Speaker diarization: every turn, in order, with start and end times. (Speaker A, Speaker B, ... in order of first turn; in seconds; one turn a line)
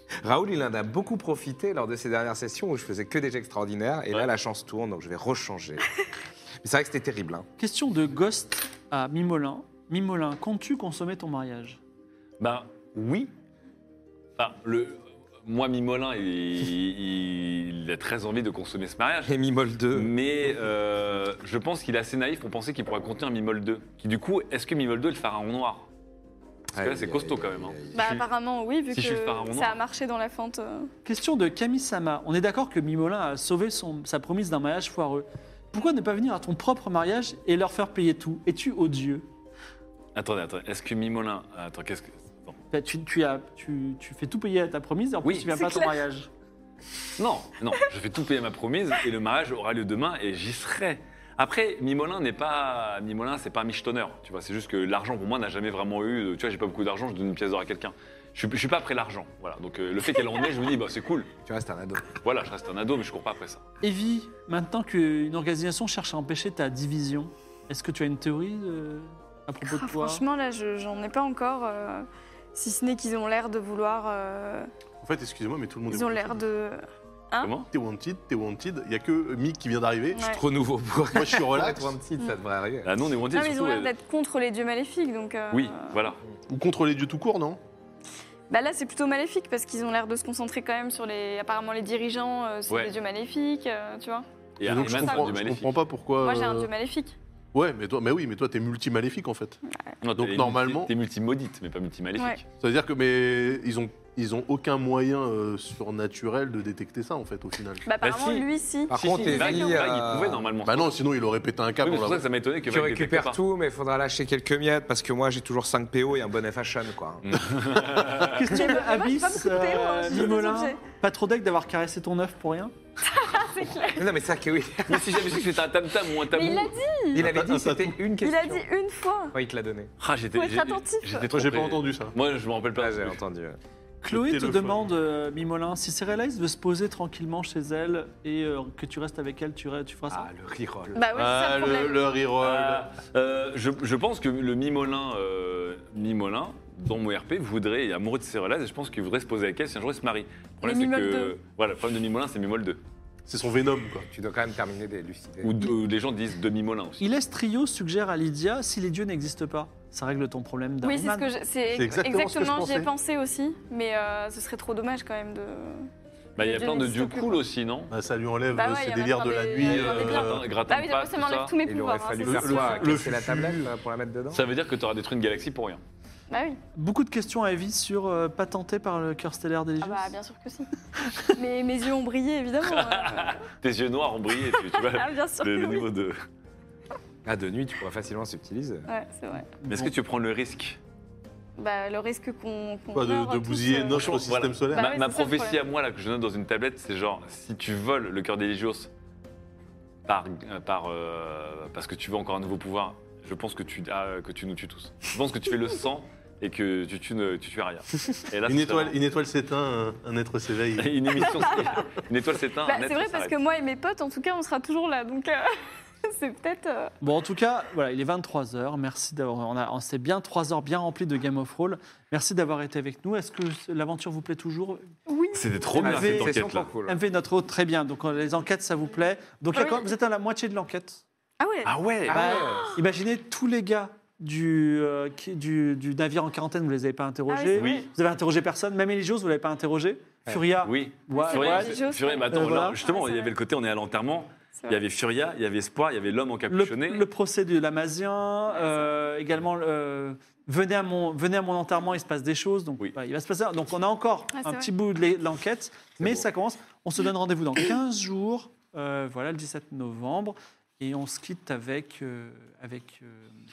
Speaker A: 0.2-5.9
Speaker A: 6.6-7.5
Speaker B: 7.6-11.8
Speaker C: 12.4-13.3
Speaker C: 14.4-19.4
Speaker A: 19.2-20.1
Speaker C: 19.9-25.9
Speaker A: 26.7-28.0
Speaker C: 26.8-28.3
Speaker D: 27.9-30.9
Speaker C: 28.9-29.8
Speaker B: 31.1-39.3
Speaker C: 40.1-42.6
Speaker B: 42.7-46.3
Speaker C: 45.2-45.6
Speaker D: 45.6-46.0
Speaker C: 47.2-61.3
Speaker A: 61.5-62.1
Speaker C: 62.2-63.6
Speaker B: 63.8-70.2
Speaker D: 69.7-74.7
Speaker E: 75.0-76.5
Speaker D: 75.9-77.5
Speaker C: 77.4-77.7
Speaker E: 77.7-80.2
Speaker D: 80.1-80.4
Speaker A: 80.3-82.9
Speaker E: 81.1-82.0
Speaker C: 82.8-83.9
Speaker D: 83.3-86.2
Speaker C: 85.5-86.2
Speaker E: 86.5-87.6
Speaker D: 88.5-95.4
Speaker C: 94.6-95.8
Speaker E: 94.6-96.7
Speaker D: 96.2-97.2
Speaker E: 97.5-99.6
Speaker D: 99.7-100.0
Speaker C: 100.0-102.4
Speaker E: 100.2-100.9
Speaker E: 102.6-107.9
Speaker D: 107.8-109.9
Speaker C: 108.0-111.0
Speaker A: 108.9-110.5
Speaker E: 110.6-112.2
Speaker C: 111.8-113.4
Speaker A: 112.7-117.6
Speaker C: 117.3-118.4
Speaker B: 118.3-122.7
Speaker D: 118.5-120.8
Speaker D: 123.1-124.0
Speaker A: 123.9-125.4
Speaker C: 124.9-126.8
Speaker D: 126.3-127.3
Speaker A: 127.1-128.7
Speaker E: 127.2-128.0
Speaker D: 128.2-129.3
Speaker A: 129.3-129.9
Speaker C: 130.0-133.2
Speaker D: 130.3-131.3
Speaker E: 131.3-132.1
Speaker A: 132.8-133.6
Speaker B: 134.0-140.3
Speaker E: 134.1-134.8
Speaker A: 140.1-141.0
Speaker D: 140.9-142.1
Speaker E: 141.1-142.9
Speaker C: 142.4-152.8
Speaker D: 150.6-151.4
Speaker E: 153.3-154.1
Speaker A: 154.1-155.7
Speaker C: 155.4-157.0
Speaker B: 157.0-161.3
Speaker D: 160.8-167.4
Speaker E: 161.7-162.9
Speaker C: 166.4-167.9
Speaker E: 167.9-170.5
Speaker D: 168.5-173.0
Speaker C: 169.6-171.5
Speaker A: 171.6-174.4
Speaker E: 172.2-173.6
Speaker C: 174.3-175.8
Speaker D: 176.3-176.6
Speaker B: 176.8-180.2
Speaker D: 179.8-180.7
Speaker D: 181.3-183.4
Speaker C: 182.7-186.2
Speaker D: 184.5-185.9
Speaker A: 187.2-188.9
Speaker D: 188.9-189.5
Speaker B: 189.6-189.9
Speaker C: 189.7-190.8
Speaker D: 191.6-194.2
Speaker E: 192.9-194.9
Speaker C: 193.9-198.9
Speaker D: 194.7-195.6
Speaker C: 200.1-209.0
Speaker E: 208.5-211.5
Speaker C: 210.8-213.3
Speaker D: 211.3-211.9
Speaker D: 212.7-215.5
Speaker D: 216.0-216.9
Speaker B: 217.0-224.9
Speaker D: 225.1-225.5
Speaker C: 225.3-226.7
Speaker A: 225.8-227.0
Speaker B: 225.8-231.0
Speaker D: 229.5-229.9
Speaker D: 231.4-232.7
Speaker C: 231.7-232.2
Speaker A: 232.1-232.8
Speaker B: 232.1-241.8
Speaker D: 237.3-237.9
Speaker C: 237.5-237.9
Speaker C: 240.6-247.1
Speaker D: 241.1-243.3
Speaker B: 242.3-242.8
Speaker B: 246.5-263.3
Speaker D: 254.3-254.7